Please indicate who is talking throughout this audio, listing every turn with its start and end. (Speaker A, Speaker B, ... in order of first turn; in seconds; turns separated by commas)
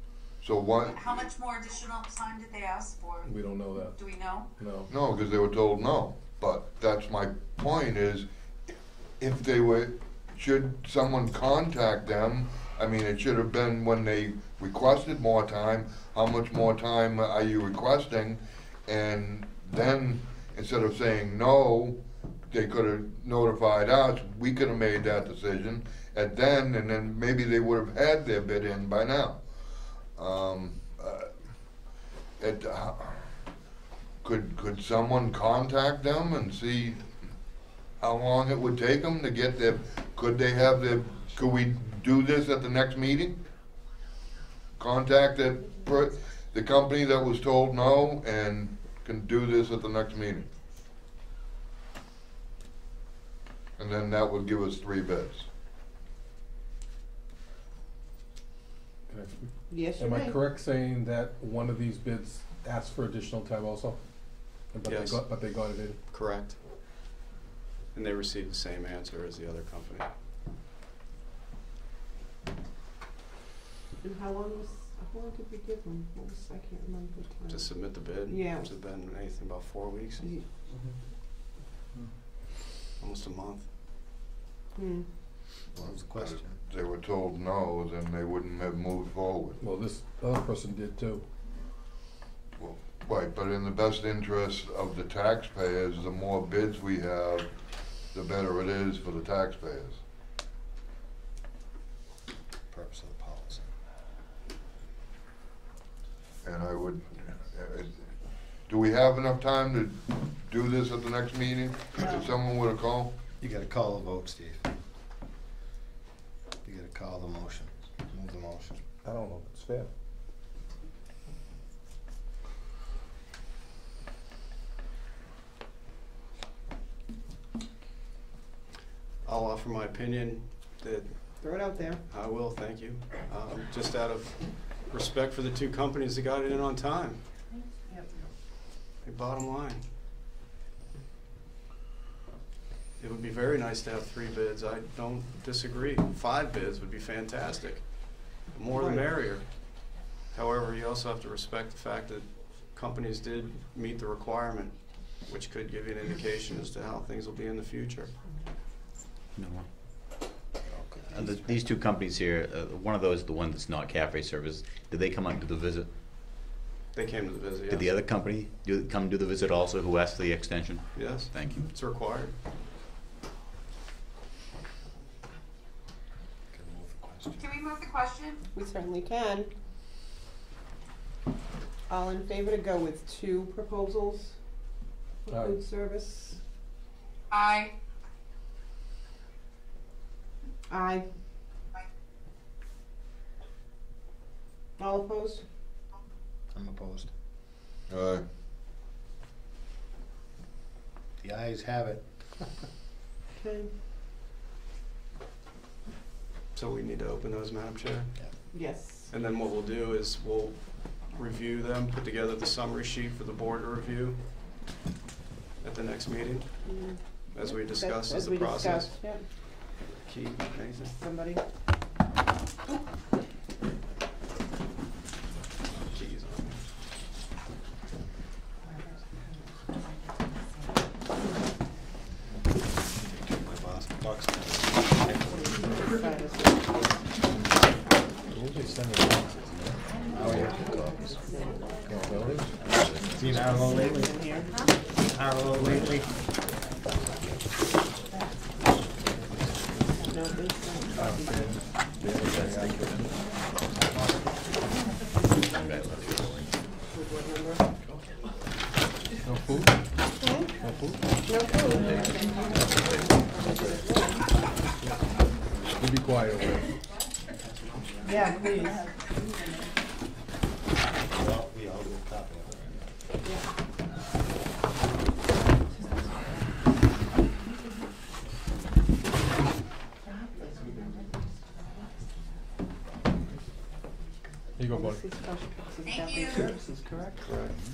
Speaker A: 0.4-1.2, Speaker B: 0.8-3.3, Speaker C: 3.2-4.0, Speaker B: 4.0-4.5, Speaker C: 4.6-4.9, Speaker A: 4.9-8.3, Speaker A: 9.2-22.0, Speaker A: 22.5-29.4, Speaker A: 30.2-31.3, Speaker A: 32.4-33.3, Speaker A: 34.2-37.1, Speaker A: 38.0-43.4, Speaker A: 44.8-50.5, Speaker A: 53.8-55.5, Speaker C: 59.1-64.0, Speaker D: 59.7-60.4, Speaker C: 64.7-66.0, Speaker E: 64.9-65.2, Speaker E: 66.1-66.6, Speaker E: 67.9-70.1, Speaker D: 74.0-77.7, Speaker E: 77.5-80.3, Speaker D: 78.3-78.7, Speaker E: 83.0-83.7, Speaker D: 84.8-85.1, Speaker F: 85.8-86.6, Speaker A: 85.8-89.6, Speaker C: 89.6-91.2, Speaker A: 92.6-97.5, Speaker A: 98.1-100.0, Speaker F: 102.7-103.7, Speaker A: 106.4-108.1, Speaker A: 108.7-113.1, Speaker F: 113.4-114.7, Speaker F: 116.7-118.8, Speaker C: 119.0-119.9, Speaker E: 129.2-131.4, Speaker D: 131.4-132.0, Speaker E: 132.1-137.2, Speaker E: 139.0-139.8, Speaker E: 143.0-147.9, Speaker E: 148.4-149.5, Speaker D: 148.7-149.0, Speaker E: 150.3-158.1, Speaker G: 159.4-159.7, Speaker F: 160.6-161.6, Speaker G: 161.1-165.9, Speaker E: 166.9-168.1, Speaker G: 167.7-171.7, Speaker E: 170.9-172.3, Speaker F: 176.5-177.5, Speaker B: 177.4-178.4, Speaker D: 178.5-179.5, Speaker D: 181.9-184.4, Speaker D: 185.3-186.4, Speaker C: 185.3-185.6, Speaker B: 187.3-187.7, Speaker D: 190.7-191.1, Speaker D: 194.8-195.4, Speaker F: 196.5-197.1, Speaker A: 197.9-198.2, Speaker F: 201.2-202.0, Speaker D: 203.4-203.7, Speaker E: 206.5-208.5, Speaker D: 208.5-209.1, Speaker E: 209.1-214.2, Speaker E: 215.6-216.5, Speaker D: 216.7-219.2, Speaker E: 217.3-218.9, Speaker E: 220.0-220.9, Speaker D: 220.9-221.4, Speaker E: 225.9-226.6, Speaker F: 233.1-235.5, Speaker D: 235.5-236.9, Speaker C: 238.3-239.8, Speaker F: 240.1-240.9, Speaker C: 241.9-242.5, Speaker G: 242.7-243.5, Speaker F: 243.1-244.2, Speaker D: 243.8-244.5, Speaker F: 245.1-246.1, Speaker D: 250.1-251.5, Speaker C: 251.0-253.0, Speaker G: 252.2-253.0, Speaker G: 255.3-256.5, Speaker D: 256.9-257.6, Speaker C: 259.2-259.8, Speaker D: 260.2-260.5, Speaker C: 260.5-261.1, Speaker D: 261.3-262.2, Speaker D: 263.2-264.2, Speaker C: 265.7-266.7, Speaker D: 268.1-268.9, Speaker F: 271.1-272.8, Speaker C: 284.6-285.0, Speaker D: 284.7-287.2, Speaker B: 285.9-286.5